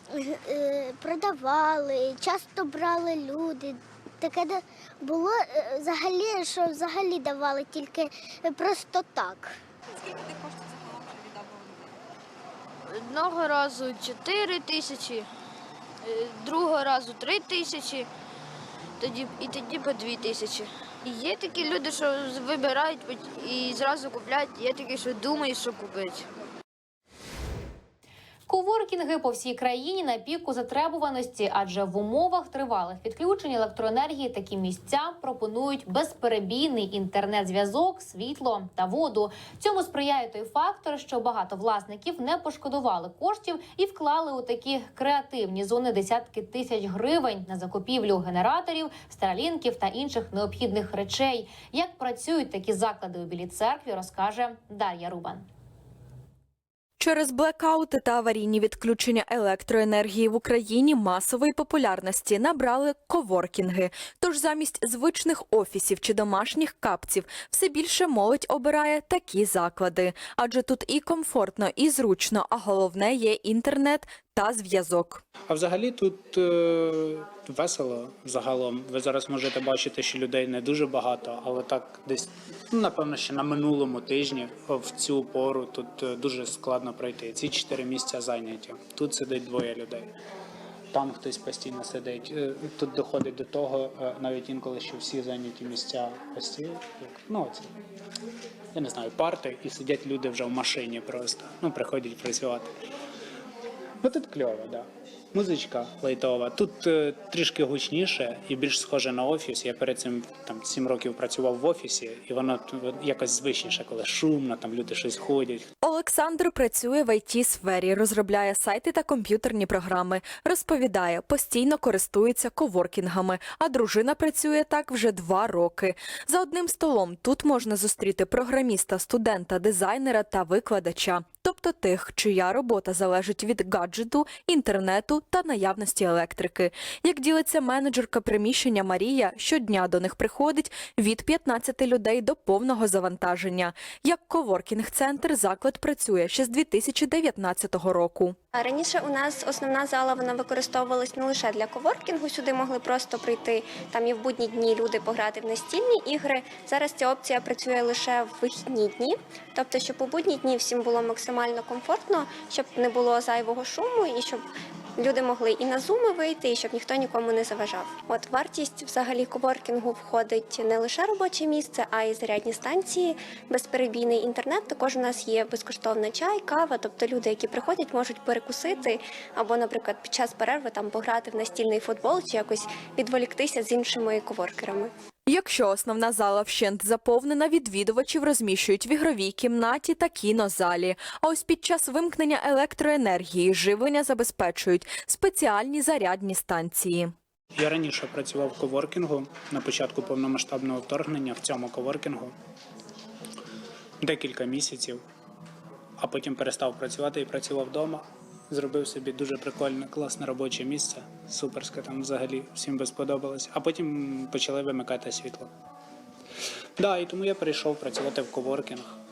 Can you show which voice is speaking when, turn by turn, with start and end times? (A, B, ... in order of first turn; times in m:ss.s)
0:00.1-0:09.5 A
0:12.9-0:15.3 B
0:16.0-0:18.1 B
0:19.0-0:26.2 B
0:28.5-0:55.4 C
0:57.0-1:15.2 D
1:15.5-1:30.1 E
1:30.9-1:37.7 E
1:38.7-1:42.7 E
1:44.0-1:55.7 E
1:55.8-2:28.4 D
2:28.5-2:44.4 F
2:45.0-3:04.9 F
3:05.3-3:17.1 D
3:17.5-3:22.3 E
3:24.0-3:25.0 E
3:26.0-3:35.5 E
3:36.8-3:38.9 E